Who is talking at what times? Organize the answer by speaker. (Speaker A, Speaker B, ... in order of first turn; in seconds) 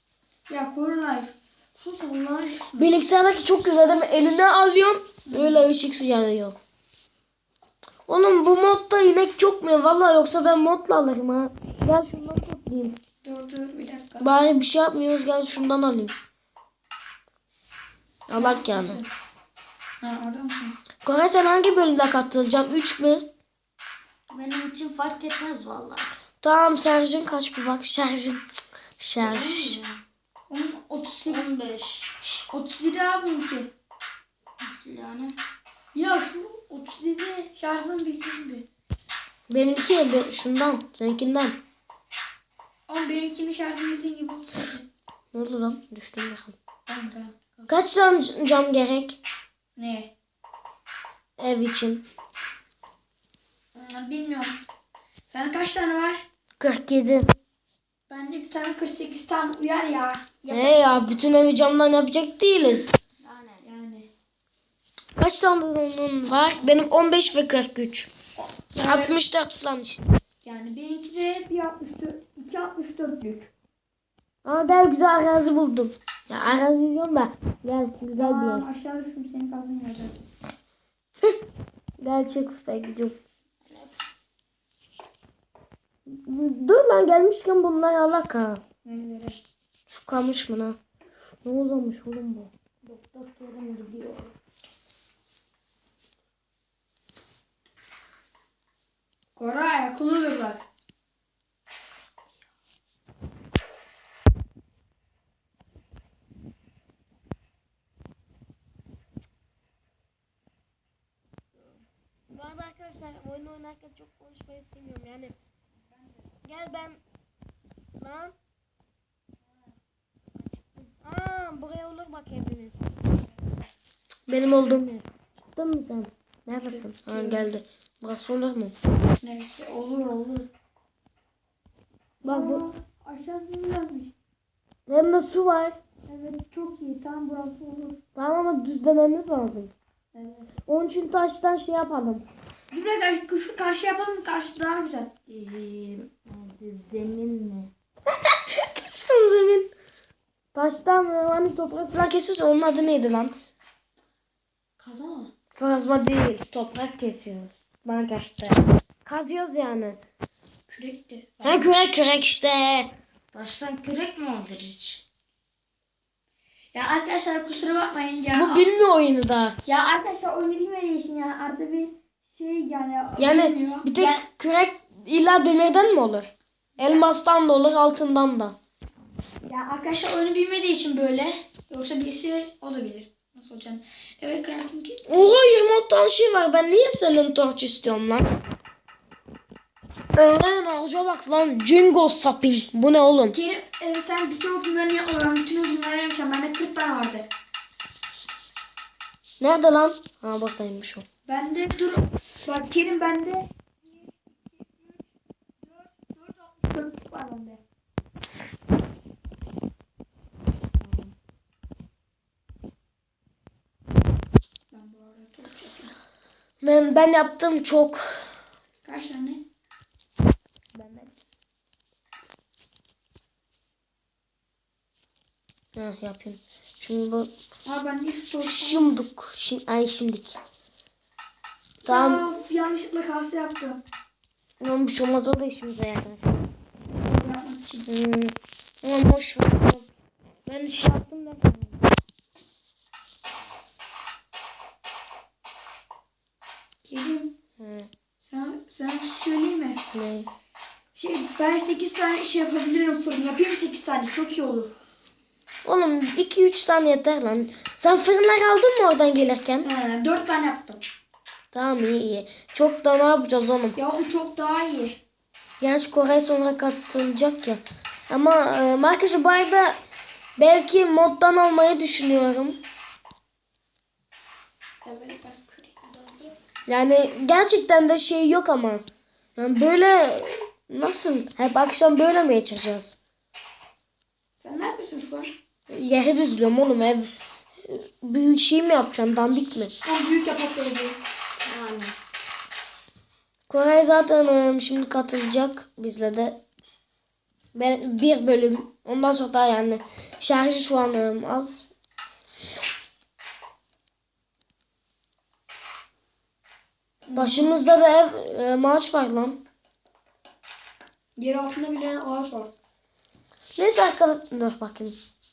Speaker A: 0.5-2.9, 5.3-5.7, 13.2-14.3, 18.4-19.1, 20.0-20.8, 30.5-31.4, 32.5-33.7, 35.9-38.6, 42.9-44.8, 46.9-47.8, 49.8-50.1, 53.7-54.6, 55.3-56.2, 58.1-60.8, 63.6-64.1, 68.4-69.2, 70.4-73.5, 78.2-80.1, 88.8-89.4, 99.3-100.6, 126.6-127.5, 129.2-130.5, 132.2-134.1, 136.1-138.0, 140.1-140.5, 142.7-145.1, 154.8-155.3, 160.7-161.7, 166.7-168.7, 169.7-174.2, 176.8-177.1, 179.4-185.3, 193.3-197.3, 201.2-204.9, 205.6-207.6, 214.7-215.9, 218.8-219.4, 227.6-229.0, 231.8-233.8, 237.0-237.9, 246.8-247.3, 248.2-249.8, 250.9-254.7, 259.6-260.8, 263.8-265.0, 274.8-276.4, 284.4-285.3, 289.8-291.0, 307.1-307.6, 311.2-312.5
Speaker B: 2.8-6.5, 8.1-13.0, 14.2-16.1, 18.3-19.0, 21.0-23.3, 26.4-28.4, 29.0-29.8, 39.5-41.6, 45.3-46.5, 47.7-49.2, 51.4-52.0, 56.6-57.3, 60.5-62.9, 65.2-68.1, 68.8-70.0, 74.4-78.6, 82.0-83.2, 86.1-88.6, 89.9-90.8, 91.4-92.5, 112.3-115.3, 116.4-117.0, 118.0-118.3, 120.8-122.9, 124.3-128.8, 132.2-132.6, 134.9-135.8, 138.2-139.7, 140.7-142.2, 148.1-149.7, 150.5-153.3, 155.6-160.0, 161.4-162.9, 168.3-169.6, 173.2-178.5, 185.1-188.4, 190.1-193.3, 199.4-201.0, 216.6-218.3, 220.8-221.1, 225.8-227.3, 228.4-230.4, 231.8-232.2, 234.6-236.2, 237.9-239.8, 240.5-241.8, 247.6-247.9, 249.9-250.3, 255.6-259.7, 261.5-263.8, 265.6-269.8, 270.4-272.6, 276.7-278.8, 279.4-283.0, 285.7-287.1, 287.6-289.7, 293.5-296.4, 297.5-301.7, 307.1-309.4, 313.6-315.0
Speaker C: 24.3-26.1, 29.2-30.0, 31.3-32.1, 34.6-35.4, 63.2-63.6, 92.8-94.3, 145.3-147.7, 163.3-165.0, 210.8-211.1, 291.4-291.9